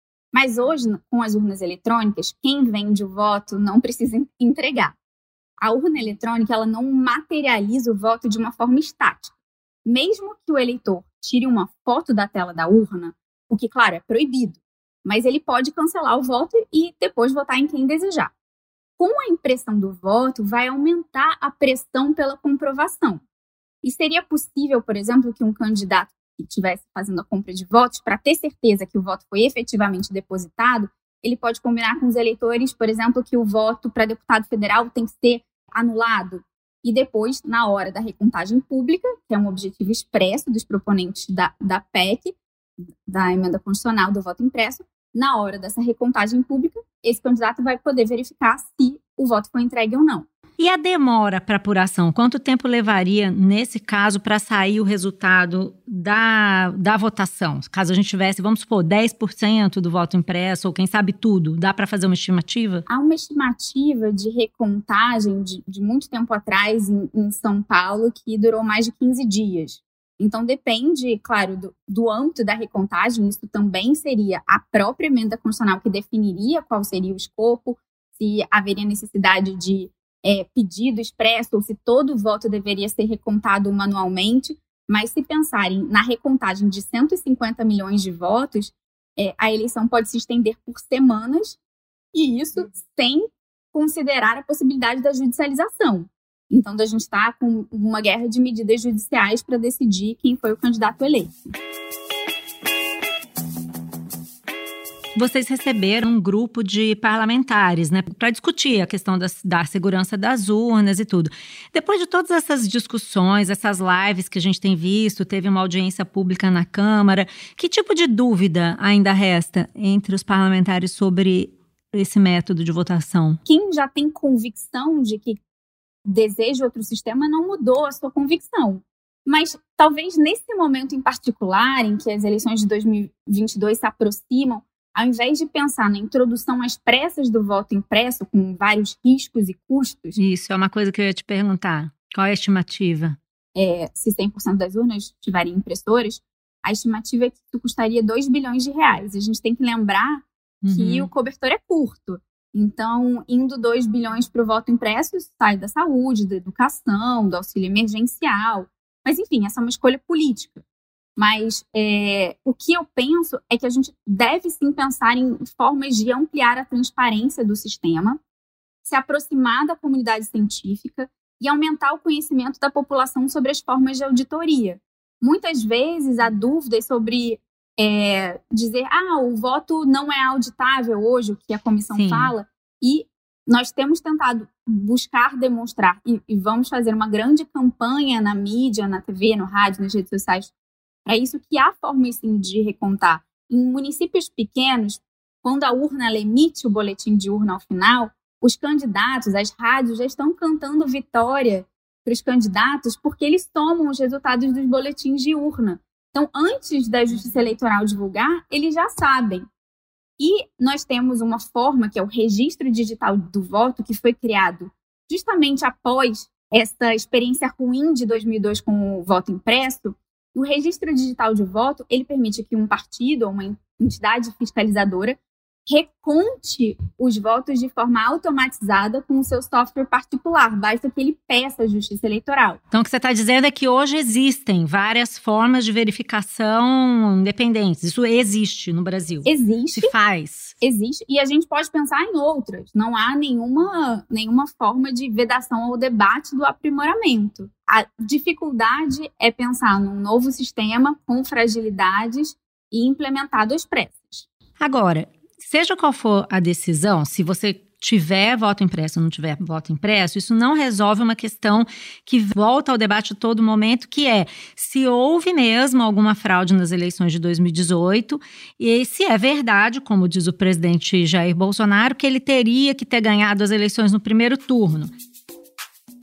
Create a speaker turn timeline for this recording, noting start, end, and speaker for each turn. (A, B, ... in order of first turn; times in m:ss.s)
0:00.3-0:05.0 A
0:05.6-0:09.3 A
0:09.8-0:18.3 A
0:19.0-0:23.2 A
0:23.8-0:42.4 A
0:43.1-0:50.3 A
0:50.6-1:02.8 B
1:02.9-1:31.6 A
1:32.1-1:41.4 A
1:45.2-2:03.4 B
2:03.5-2:05.4 A
2:06.0-2:20.2 A
2:20.2-2:23.2 B
2:23.6-2:40.6 A
2:30.6-2:31.1 B
2:41.2-2:48.2 A
2:48.8-3:10.5 A
3:01.9-3:02.3 B
3:11.1-3:29.5 A
3:30.2-3:52.6 A
3:52.7-4:00.5 B
3:59.2-3:59.9 A
4:00.6-4:14.3 A
4:14.6-4:34.9 B